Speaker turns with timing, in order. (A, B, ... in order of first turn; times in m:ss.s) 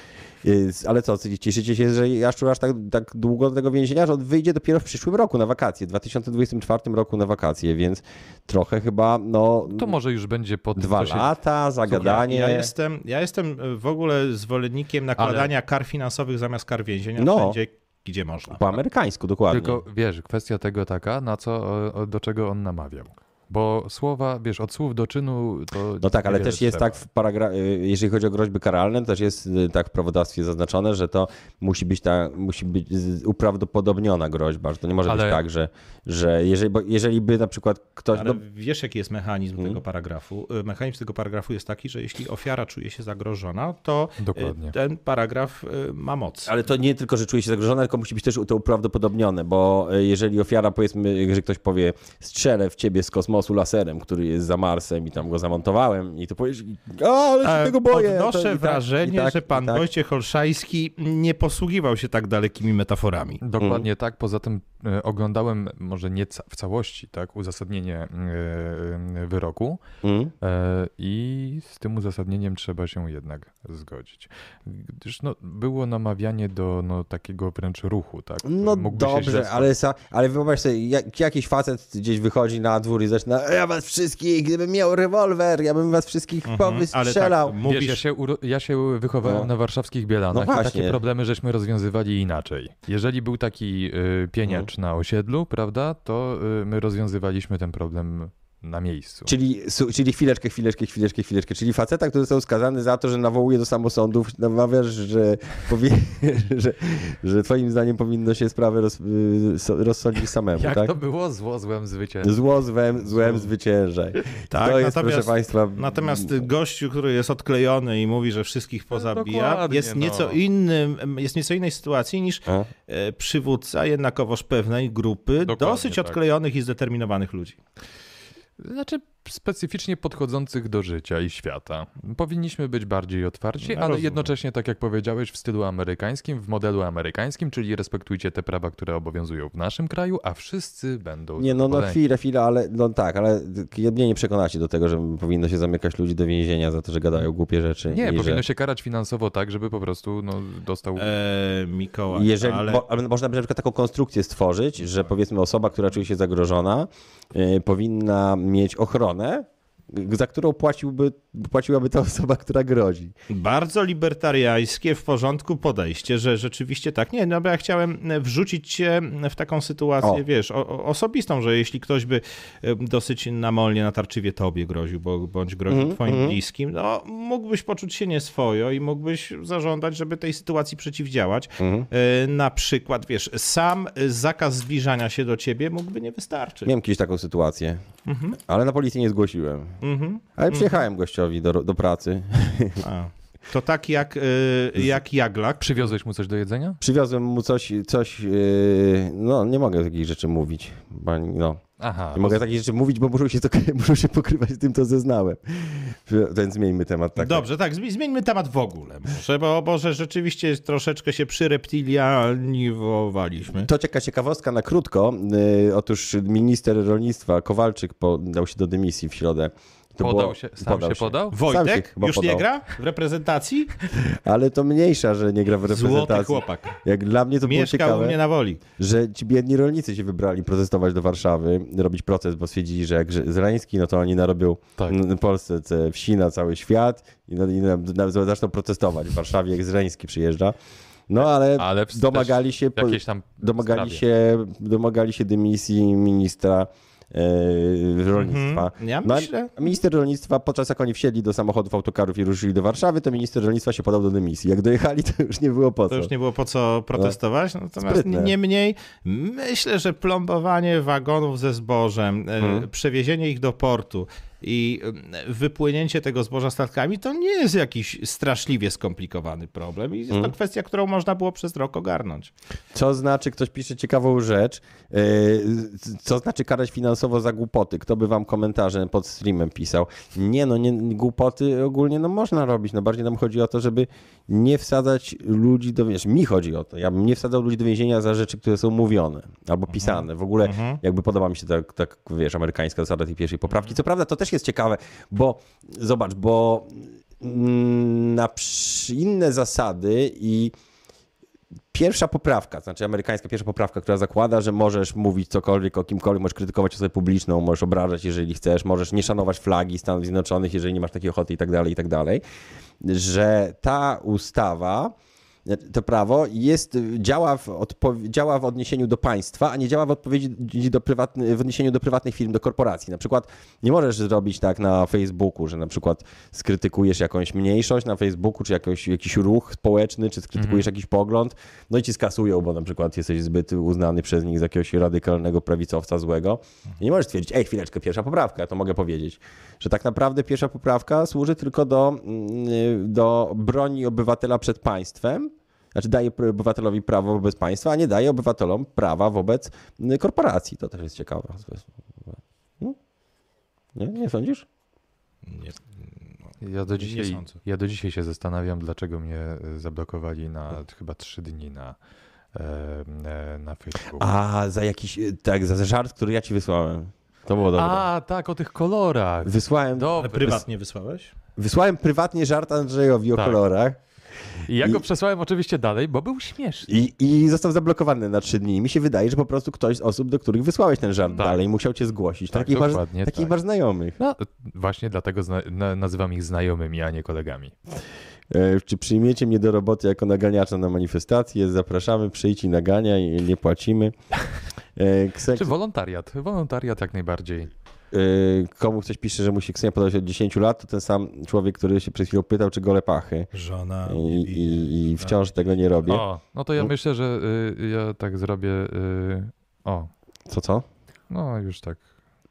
0:00.4-0:10.0 A
0:09.7-0:11.3 B
0:10.8-0:12.7 A
0:11.9-0:18.7 C
0:15.2-0:15.5 B
0:17.2-0:17.6 A
0:18.5-0:19.8 A
0:19.5-0:27.0 B
0:26.0-0:38.4 A
0:35.1-0:35.4 B
0:38.1-0:46.5 C
0:44.2-0:44.8 B
0:46.5-0:59.8 A
0:57.4-1:03.4 C
1:03.4-1:09.8 B
1:03.6-1:03.9 A
1:10.0-1:10.3 A
1:10.4-1:19.7 B
1:18.4-1:27.6 A
1:26.5-1:28.0 C
1:27.6-1:39.3 B
1:29.2-1:29.5 A
1:30.3-1:31.0 A
1:39.3-1:50.9 A
1:50.6-1:52.3 B
1:52.2-1:56.5 A
1:54.5-2:07.6 C
1:58.9-2:00.4 B
2:05.4-2:06.2 B
2:08.6-2:22.0 B
2:13.7-2:14.2 C
2:21.4-2:28.4 A
2:27.9-2:31.1 B
2:31.0-2:32.8 C
2:32.1-2:43.1 A
2:43.3-3:06.7 C
2:55.7-2:56.4 A
3:01.6-3:01.9 A
3:06.6-3:07.8 A
3:08.1-3:08.4 C
3:08.4-3:09.8 A
3:09.8-3:10.7 C
3:10.4-3:12.8 A
3:12.8-3:15.9 C
3:15.6-3:16.8 B
3:16.8-3:21.6 A
3:21.8-3:22.4 B
3:22.1-3:27.5 A
3:27.2-3:33.7 C
3:33.6-3:42.5 A
3:40.0-3:41.4 B
3:41.3-3:43.8 C
3:43.9-3:48.2 A
3:45.7-3:46.8 C
3:47.4-3:48.6 C
3:48.8-4:00.6 A
4:01.1-4:16.1 A
4:01.6-4:04.0 B
4:08.2-4:09.6 C
4:15.9-4:32.3 C
4:17.8-4:18.4 A
4:22.4-4:22.7 A
4:32.7-5:00.5 A
4:49.8-4:50.8 C
5:01.7-5:12.2 A
5:12.8-5:14.9 A
5:15.5-5:52.8 A
5:30.4-5:30.7 B
5:53.8-5:54.5 A
5:55.2-5:55.8 C
5:56.4-6:01.8 B
5:56.8-5:57.4 C
6:02.3-6:04.1 B
6:03.9-6:07.9 A
6:07.6-6:10.4 B
6:09.2-6:10.4 A
6:10.0-6:11.1 C
6:11.4-6:13.8 A
6:14.4-6:16.7 B
6:16.7-6:24.0 A
6:22.3-6:23.3 B
6:24.0-6:27.5 B
6:28.3-6:34.0 A
6:34.8-6:35.5 A
6:35.3-6:37.5 B
6:37.9-6:43.3 A
6:43.3-6:45.6 C
6:43.9-6:46.0 A
6:45.9-6:49.9 B
6:50.3-6:50.6 A
6:51.1-6:51.8 B